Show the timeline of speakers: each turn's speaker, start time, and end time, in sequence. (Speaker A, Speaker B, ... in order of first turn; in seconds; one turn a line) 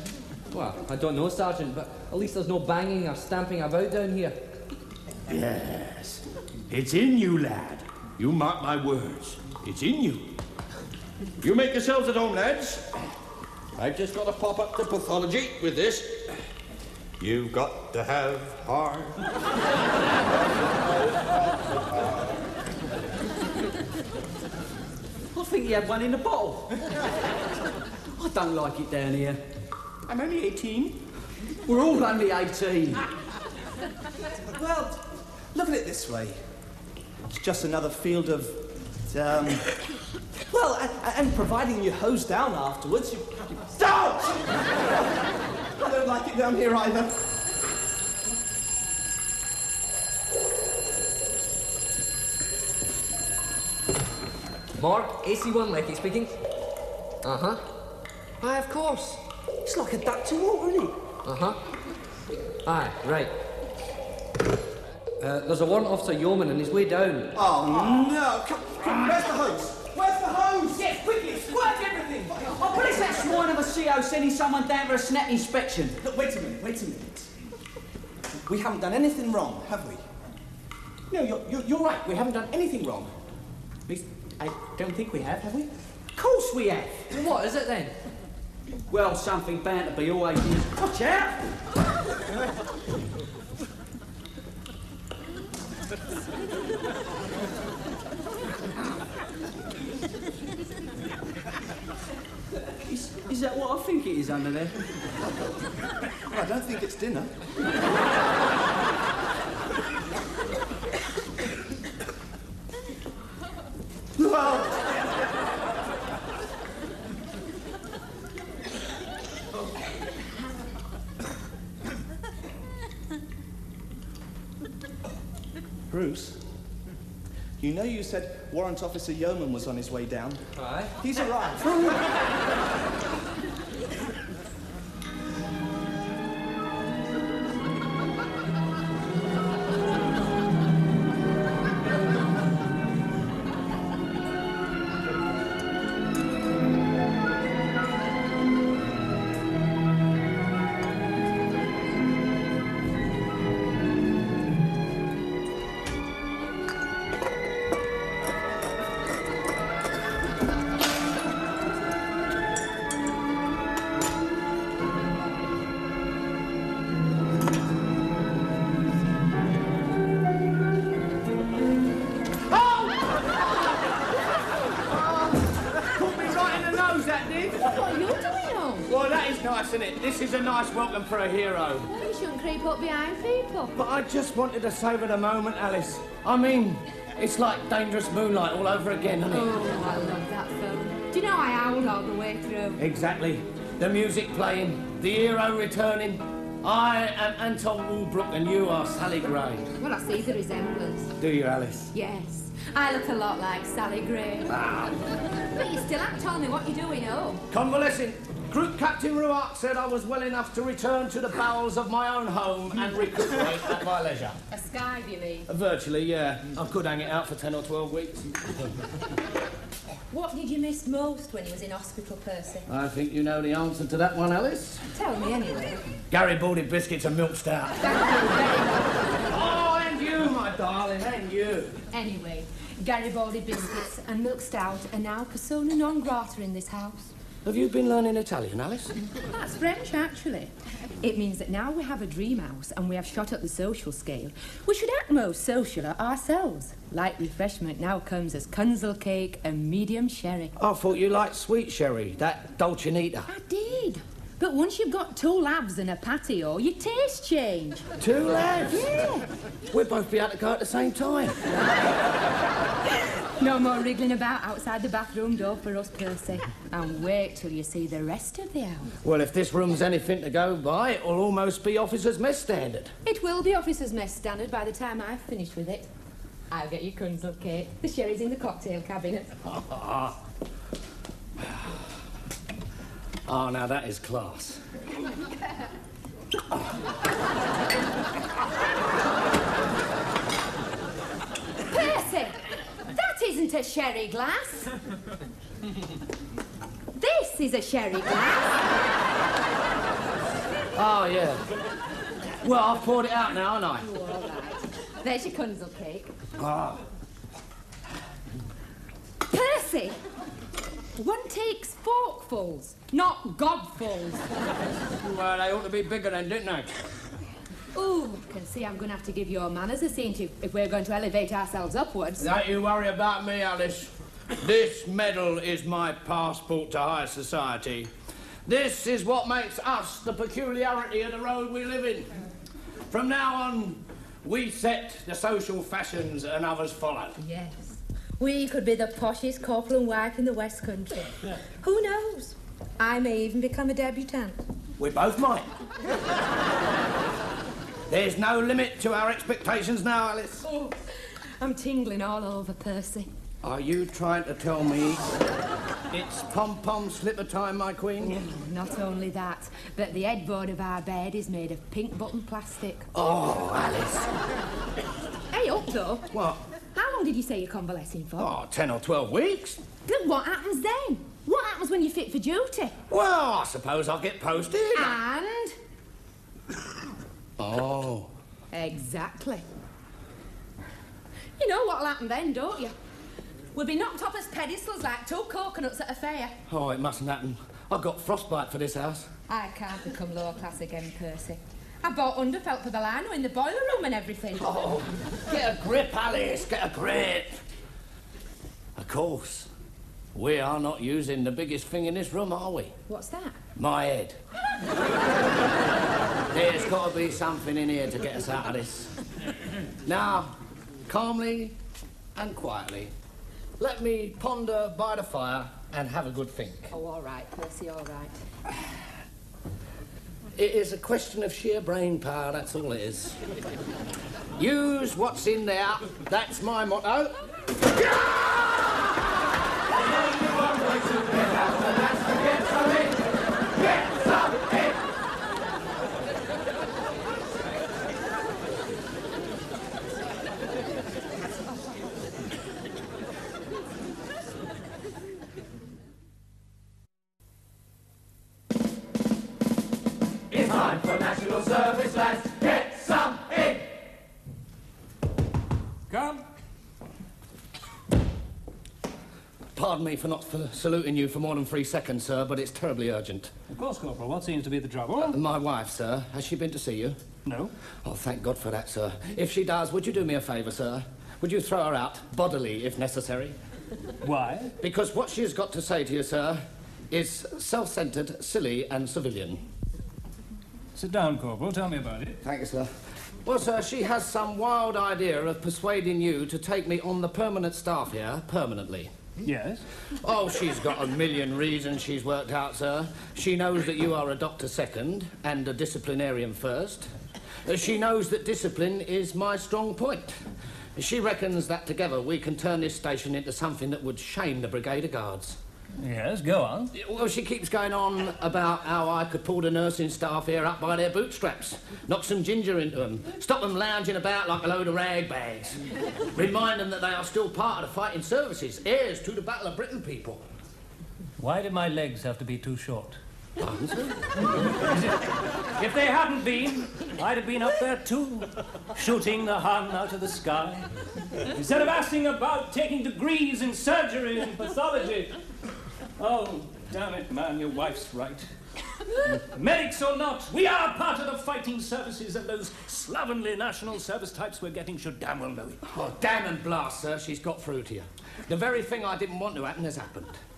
Speaker A: 0.5-4.4
Speaker B: 5.3-10.3
Speaker B: 11.4-12.8
Speaker B: 13.8-16.3
Speaker B: 17.2-19.2
Speaker C: 25.3-26.8
Speaker C: 28.2-29.4
Speaker D: 30.1-31.0
Speaker C: 31.6-33.0
Speaker D: 34.5-36.4
Speaker D: 37.3-39.7
Speaker D: 40.5-44.9
Speaker D: 45.8-47.1
Speaker A: 54.8-56.3
Speaker A: 57.2-57.6
Speaker A: 58.4-59.2
Speaker C: 59.6-61.0
Speaker A: 61.2-61.6
Speaker A: 62.6-63.3
Speaker A: 65.2-67.3
Speaker D: 67.3-71.0
Speaker C: 67.6-68.2
Speaker D: 72.1-73.4
Speaker C: 72.4-76.0
Speaker D: 76.0-77.3
Speaker D: 78.5-80.0
Speaker E: 81.1-83.1
Speaker E: 83.9-85.7
Speaker C: 86.2-87.0
Speaker A: 87.1-87.9
Speaker C: 88.9-91.4
Speaker C: 102.8-104.7
Speaker D: 106.3-107.3
Speaker D: 114.2-114.9
Speaker D: 125.9-126.4
Speaker D: 127.6-130.4
Speaker A: 130.6-130.9
Speaker D: 131.0-132.0
Speaker F: 172.5-173.3
Speaker F: 174.9-177.6
Speaker G: 177.6-178.9
Speaker F: 178.9-181.9
Speaker G: 181.9-183.7
Speaker F: 183.7-189.6
Speaker G: 189.3-192.8
Speaker F: 192.8-199.7
Speaker G: 199.8-201.1
Speaker F: 201.2-201.9
Speaker G: 201.9-204.5
Speaker F: 204.5-205.0
Speaker G: 205.5-207.4
Speaker F: 207.5-214.3
Speaker G: 214.5-215.5
Speaker F: 215.5-218.5
Speaker G: 220.1-222.7
Speaker F: 222.7-224.8
Speaker G: 224.9-225.8
Speaker F: 226.1-227.9
Speaker G: 227.8-229.0
Speaker F: 229.3-231.8
Speaker G: 231.9-237.1
Speaker F: 237.4-238.9
Speaker G: 239.3-250.5
Speaker F: 250.6-253.3
Speaker G: 253.3-257.9
Speaker F: 258.0-258.9
Speaker G: 258.7-259.2
Speaker F: 259.7-261.4
Speaker G: 263.4-268.9
Speaker F: 269.0-272.9
Speaker G: 273.0-275.9
Speaker G: 276.5-279.3
Speaker F: 279.4-280.2
Speaker F: 283.3-284.6
Speaker G: 291.7-294.7
Speaker G: 297.0-298.7
Speaker F: 300.7-301.4
Speaker F: 302.4-303.9
Speaker G: 303.8-306.1
Speaker F: 306.4-306.8
Speaker G: 309.3-310.0
Speaker G: 310.9-314.3
Speaker F: 314.9-316.8
Speaker G: 317.7-322.3
Speaker F: 322.2-327.9
Speaker F: 328.4-332.2
Speaker F: 332.9-337.2
Speaker G: 337.2-344.4
Speaker F: 344.8-345.5
Speaker F: 347.9-350.4
Speaker G: 350.4-350.8
Speaker G: 351.4-353.1
Speaker F: 353.4-355.0
Speaker F: 355.9-358.3
Speaker G: 358.0-362.9
Speaker F: 362.9-364.1
Speaker G: 365.3-366.1
Speaker F: 366.1-366.4
Speaker G: 366.7-368.3
Speaker F: 368.2-369.6
Speaker G: 369.8-372.8
Speaker F: 372.9-375.0
Speaker G: 374.7-375.6
Speaker F: 377.4-378.1
Speaker G: 378.5-379.4
Speaker G: 381.4-382.7
Speaker G: 383.5-386.4
Speaker F: 386.5-389.1
Speaker G: 389.3-394.8
Speaker F: 394.4-397.4
Speaker F: 398.8-399.5
Speaker F: 400.1-402.8
Speaker G: 402.9-403.4
Speaker F: 403.6-404.2
Speaker F: 406.3-408.9
Speaker F: 409.8-410.3
Speaker F: 410.9-411.6
Speaker F: 412.1-412.9
Speaker F: 413.6-416.7
Speaker G: 416.7-418.2
Speaker F: 420.4-423.2
Speaker F: 424.4-427.1
Speaker A: 429.8-433.0
Speaker A: 433.6-434.7
Speaker E: 450.3-453.6
Speaker H: 455.9-456.3
Speaker F: 459.5-463.3
Speaker H: 463.5-465.2
Speaker F: 465.0-467.0
Speaker H: 467.2-467.5
Speaker F: 467.8-473.4
Speaker H: 474.0-474.5
Speaker F: 474.6-479.4
Speaker H: 480.7-482.2
Speaker F: 482.2-482.7
Speaker F: 483.2-488.9
Speaker H: 489.2-489.6
Speaker F: 490.0-496.9
Speaker F: 497.4-500.1
Speaker F: 500.8-505.4
Speaker H: 505.8-506.7
Speaker F: 506.7-515.6
Speaker F: 516.1-520.2
Speaker H: 521.2-523.0
Speaker F: 523.4-524.1
Speaker H: 524.5-530.6
Speaker H: 531.3-535.2
Speaker H: 536.0-538.3
Speaker H: 539.0-545.6
Speaker F: 545.6-550.2